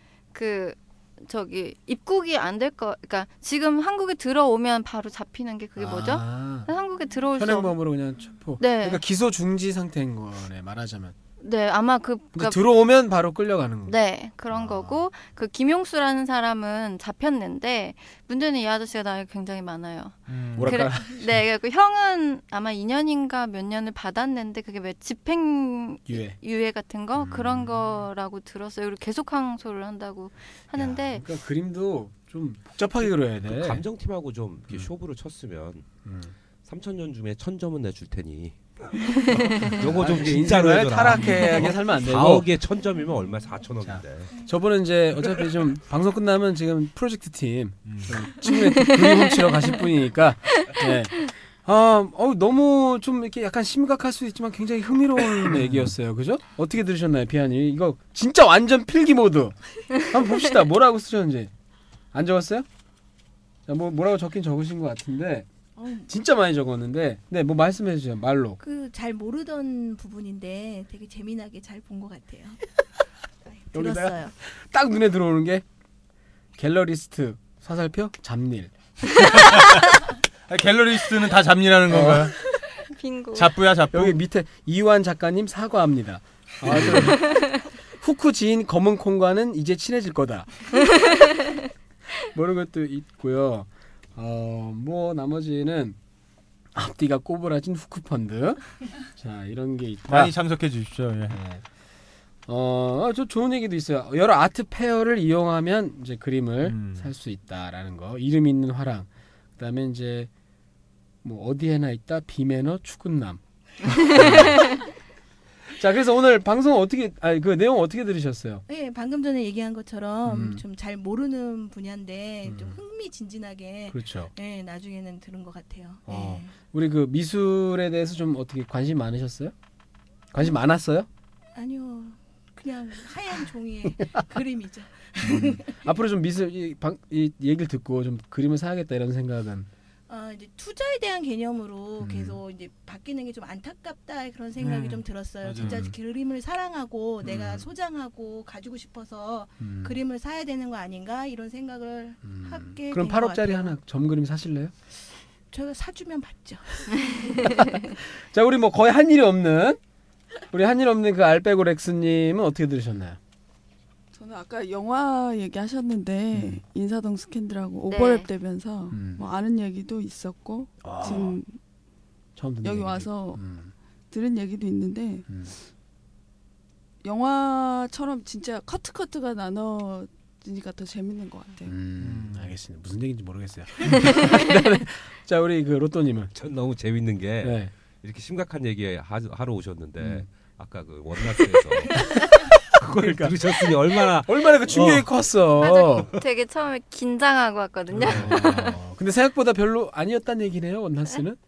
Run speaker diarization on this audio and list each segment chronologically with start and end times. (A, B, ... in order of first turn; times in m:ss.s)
0:00.3-0:07.7 A
0:05.8-0:06.7 B
0:07.4-0:11.1 B
0:08.6-0:09.0 A
0:11.4-0:12.6 A
0:12.3-0:14.0 B
0:13.9-0:31.2 A
0:14.5-0:15.0 B
0:20.3-0:21.4 C
0:20.6-0:21.1 B
0:26.1-0:26.4 B
0:27.1-0:27.7 B
0:30.7-0:33.8 B
0:33.4-0:35.9 D
0:36.0-0:36.3 B
0:36.6-0:44.3 D
0:39.3-0:42.4 B
0:43.8-1:01.5 B
0:47.8-0:48.3 C
0:48.5-0:49.6 A
0:50.6-0:50.8 A
0:55.6-0:55.9 C
1:02.1-1:02.6 B
1:03.7-1:05.5 B
1:05.8-1:06.1 E
1:06.1-1:08.6 B
1:08.6-1:12.6 E
1:13.5-1:14.3 E
1:13.7-1:15.6 B
1:16.6-1:18.7 B
1:19.2-1:22.4 C
1:21.9-1:22.3 B
1:22.8-1:23.5 A
1:23.3-1:24.2 C
1:23.9-1:27.4 B
1:26.6-1:27.2 C
1:27.0-1:27.6 A
1:28.0-1:30.5 B
1:30.9-1:31.4 A
1:32.3-1:36.0 B
1:36.7-1:38.6 B
1:39.1-1:40.3 B
1:40.1-1:41.4 C
1:41.3-1:41.6 B
1:42.5-1:50.3 B
1:46.6-1:47.1 C
1:51.2-1:54.8 B
1:54.2-1:54.6 C
1:55.8-1:58.6 B
1:58.7-2:06.5 E
2:00.2-2:00.6 B
2:02.4-2:02.8 B
2:03.9-2:04.3 B
2:06.0-2:09.5 B
2:10.3-2:11.1 B
2:11.5-2:15.7 E
2:13.9-2:14.2 B
2:15.2-2:19.7 B
2:20.1-2:33.8 E
2:22.0-2:22.4 B
2:24.6-2:25.9 C
2:25.6-2:25.9 B
2:27.2-2:27.7 B
2:29.6-2:30.0 B
2:32.2-2:34.7 B
2:35.5-2:37.8 E
2:37.4-2:39.8 B
2:40.5-2:43.2 B
2:44.1-2:51.5 F
2:46.3-2:46.6 B
2:47.9-2:48.3 A
2:48.9-2:49.3 B
2:50.8-2:51.4 B
2:52.4-2:53.7 B
2:52.6-2:53.4 F
2:54.1-2:55.2 F
2:55.3-2:55.5 B
2:57.0-3:01.7 F
3:01.6-3:06.3 B
3:02.0-3:02.5 C
3:03.8-3:04.2 C
3:06.3-3:14.5 D
3:07.4-3:07.7 B
3:10.0-3:10.3 B
3:11.9-3:16.1 B
3:14.7-3:15.1 C
3:15.6-3:18.8 A
3:17.9-3:21.4 B
3:18.0-3:18.3 C